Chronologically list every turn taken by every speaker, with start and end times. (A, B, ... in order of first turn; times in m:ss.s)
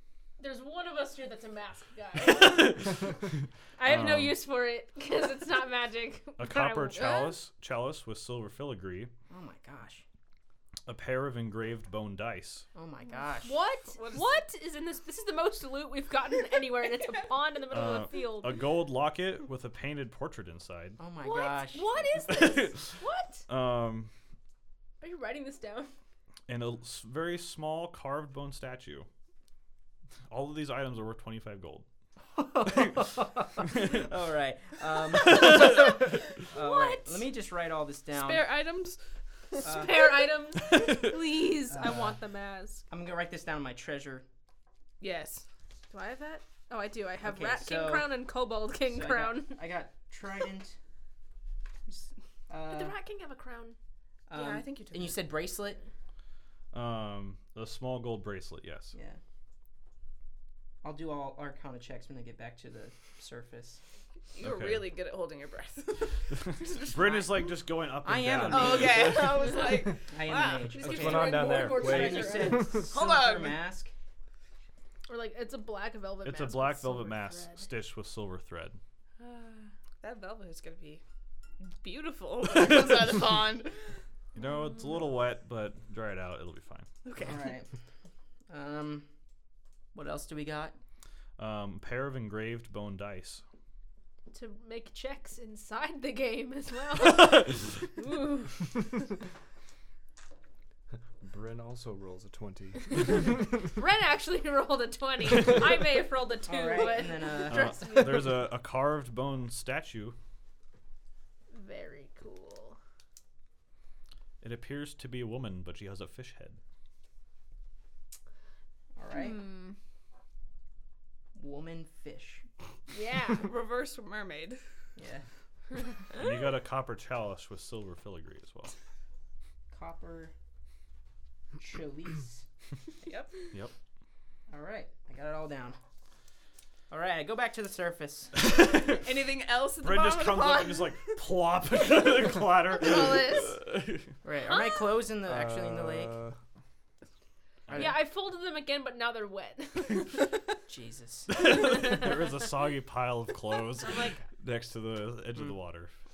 0:00.4-0:03.0 A
0:02.2-0:04.4 B
0:03.8-0:07.4 A
0:06.4-0:09.1 B
0:07.0-0:07.3 C
0:09.3-0:10.0 D
0:10.9-0:12.7 B
0:12.8-0:13.6 D
0:13.4-0:18.6 A
0:14.0-0:14.3 C
0:17.7-0:21.0 B
0:21.0-0:21.9 D
0:21.2-0:23.5 A
0:22.2-0:24.1 B
0:25.0-0:25.9 A
0:26.5-0:29.1 B
0:30.3-0:31.9 B
0:32.4-0:38.5 D
0:32.7-0:33.1 B
0:33.6-0:34.1 B
0:35.2-0:35.8 B
0:35.5-0:37.3 A
0:38.1-0:39.0 C
0:39.6-0:42.8 A
0:39.6-0:40.2 D
0:41.7-0:42.2 D
0:42.9-0:44.2 D
0:45.0-0:45.4 C
0:45.9-0:49.6 A
0:47.2-0:48.3 D
0:48.8-0:50.8 D
0:52.5-0:53.0 D
0:52.7-0:53.8 A
0:54.3-0:55.8 D
0:54.3-0:55.2 C
0:56.7-0:58.9 B
0:58.9-0:59.2 D
1:00.8-1:03.8 D
1:04.3-1:07.3 C
1:04.4-1:04.9 B
1:06.3-1:09.6 B
1:08.0-1:09.4 D
1:08.5-1:11.6 C
1:10.1-1:13.9 D
1:10.7-1:12.7 A
1:10.8-1:12.9 E
1:12.8-1:13.6 C
1:15.1-1:17.7 A
1:16.2-1:18.8 B
1:19.2-1:21.0 C
1:21.6-1:23.8 C
1:24.4-1:26.9 B
1:27.0-1:27.5 C
1:27.2-1:27.7 D
1:28.5-1:29.1 D
1:29.9-1:30.8 D
1:31.4-1:33.4 B
1:34.3-1:38.8 A
1:41.2-1:43.6 E
1:42.9-1:48.4 A
1:46.5-1:47.6 D
1:47.5-1:50.2 B
1:51.5-1:52.8 A
1:54.4-1:56.6 B
1:59.0-1:59.4 D
1:59.1-1:59.8 A
2:01.3-2:02.4 D
2:02.9-2:03.5 A
2:03.3-2:04.6 C
2:05.0-2:05.2 D
2:06.1-2:08.7 B
2:09.7-2:10.3 D
2:11.6-2:12.4 D
2:13.0-2:13.3 C
2:14.5-2:15.8 D
2:16.9-2:18.3 D
2:18.4-2:19.0 B
2:19.0-2:21.1 C
2:19.8-2:24.1 B
2:22.7-2:23.6 C
2:24.2-2:26.1 D
2:24.5-2:25.0 A
2:25.2-2:26.4 E
2:27.7-2:28.0 B
2:27.7-2:28.0 D
2:27.7-2:30.1 A
2:30.7-2:31.4 D
2:31.3-2:35.9 B
2:33.8-2:34.2 A